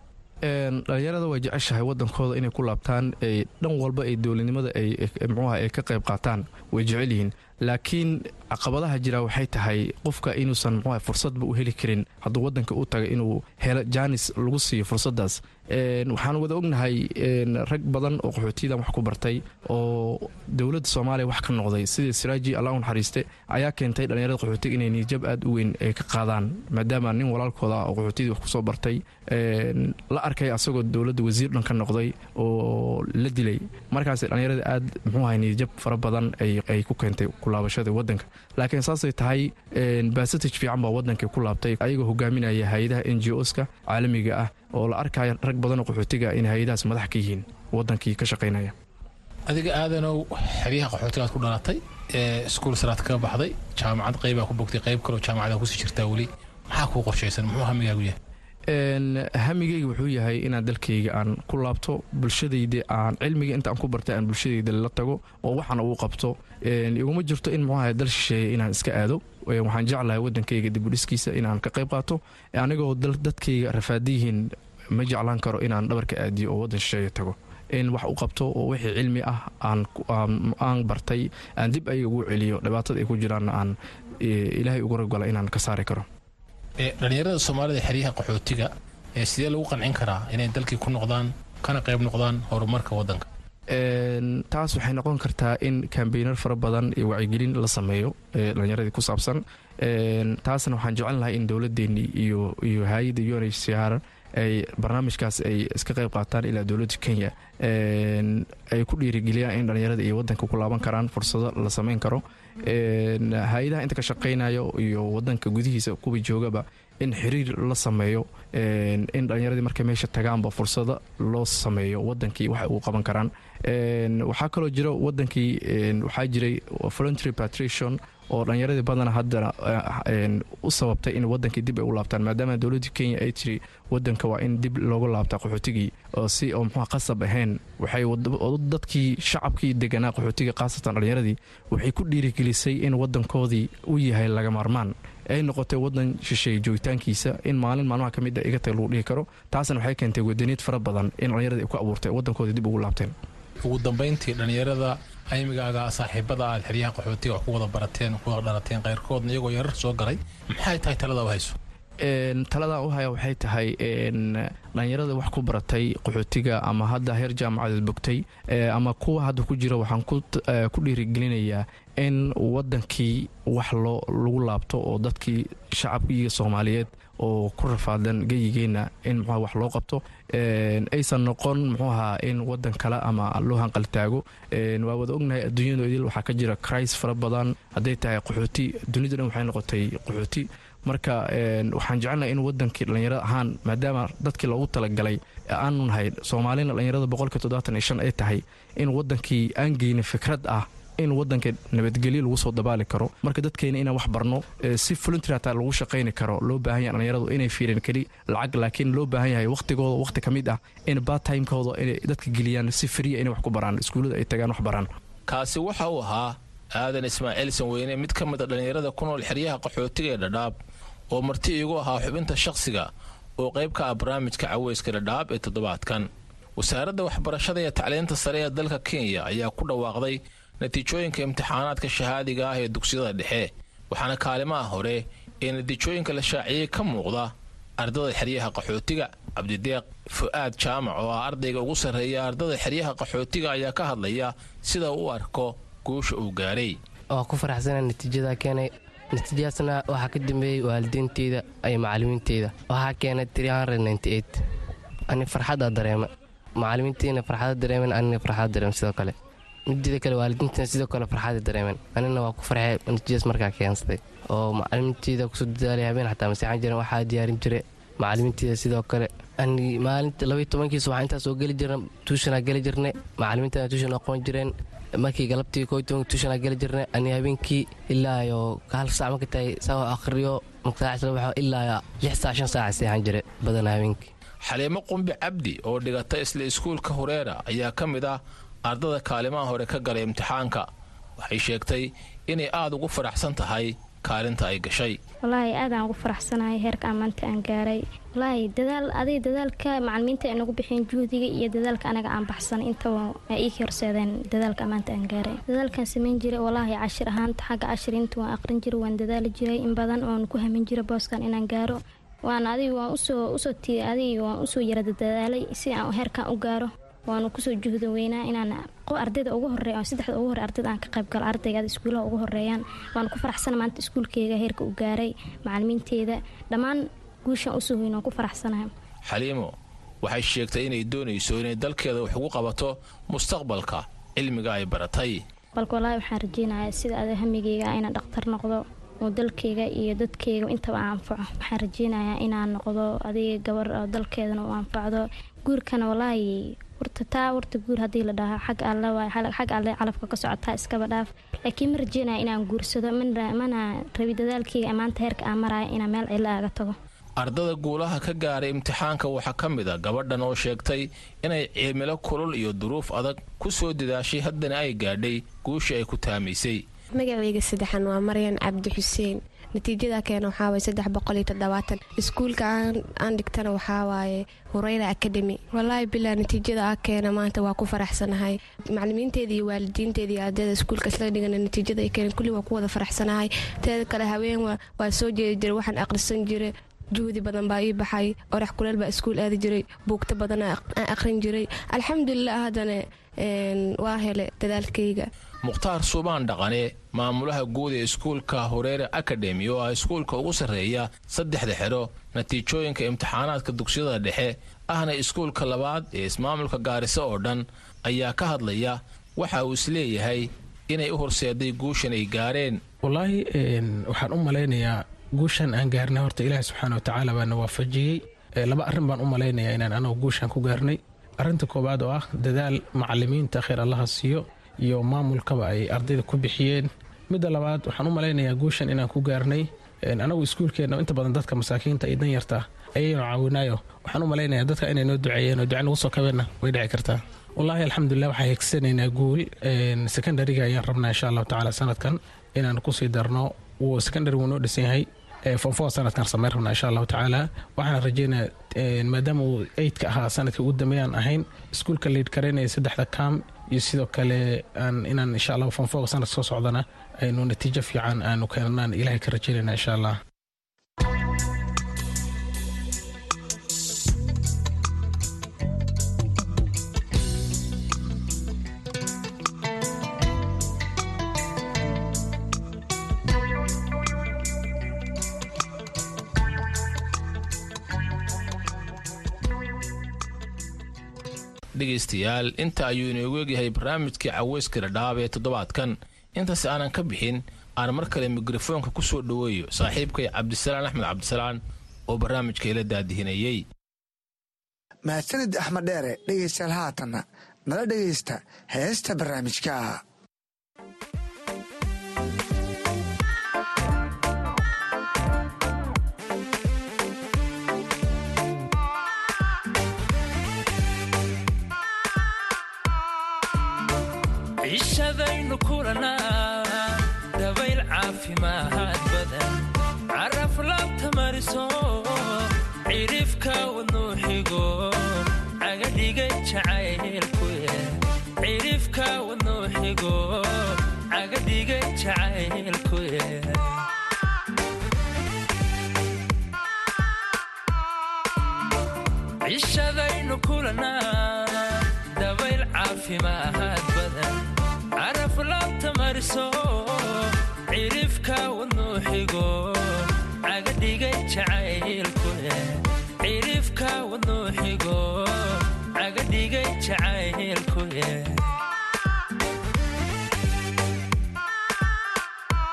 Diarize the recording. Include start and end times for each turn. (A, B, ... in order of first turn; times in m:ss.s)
0:00.4-0:48.7 A
0:49.5-0:58.2 B
0:58.7-1:26.0 A
1:26.8-1:33.2 B
1:33.7-2:33.1 A
2:33.6-2:41.6 B
2:42.0-3:34.9 A
3:35.3-3:40.5 B
3:41.1-4:06.8 B
4:07.1-4:14.4 C
4:15.1-4:16.1 C
4:16.6-4:19.1 C
4:19.7-4:44.1 C
4:44.4-4:50.7 B
4:51.2-4:55.0 B
4:55.2-5:28.7 D
5:29.0-5:35.2 B
5:35.5-5:56.7 D
5:57.2-6:06.6 B
6:06.9-6:35.1 E
6:35.4-6:52.6 B
6:52.8-7:40.0 F
8:01.5-8:13.4 B
8:14.9-8:19.8 G
8:34.4-8:53.6 H
8:59.2-9:04.3 H
9:04.8-9:18.3 H